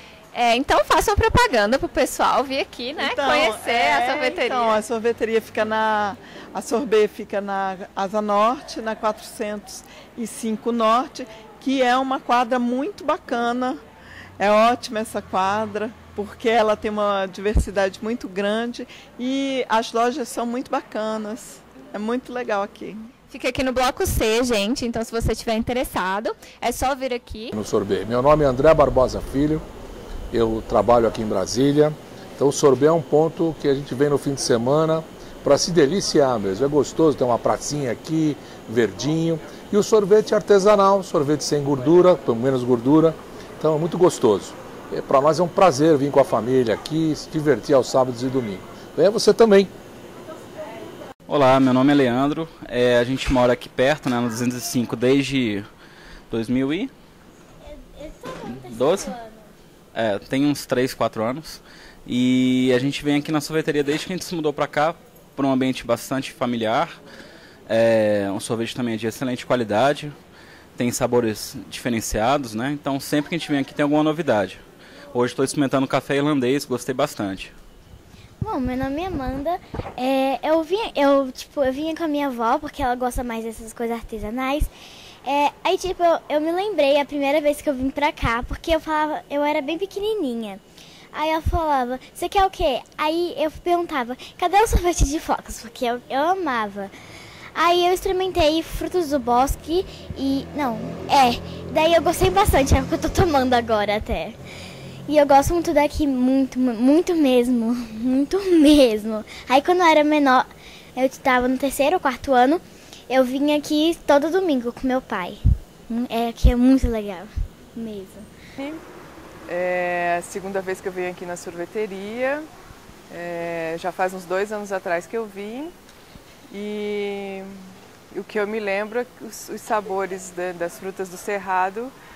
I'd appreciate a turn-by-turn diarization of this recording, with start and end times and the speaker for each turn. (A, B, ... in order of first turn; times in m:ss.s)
0:00.3-0:04.8 A
0:03.0-0:13.8 B
0:14.4-0:23.1 B
0:23.3-0:27.5 A
0:27.5-0:29.6 C
0:30.3-0:49.7 C
0:51.3-0:55.7 D
0:56.3-0:56.9 D
0:57.7-0:59.5 E
0:58.6-0:59.2 D
0:59.9-1:06.9 D
1:07.7-1:10.1 D
1:10.8-1:14.6 D
1:15.1-1:17.5 D
1:18.4-1:24.7 E
1:25.2-1:30.6 E
1:31.1-1:36.9 E
1:37.6-1:44.4 E
1:45.1-1:58.3 E
1:58.6-1:58.8 F
1:59.5-2:02.5 F
2:03.1-2:05.7 F
2:06.5-2:07.6 F
2:08.1-2:11.9 F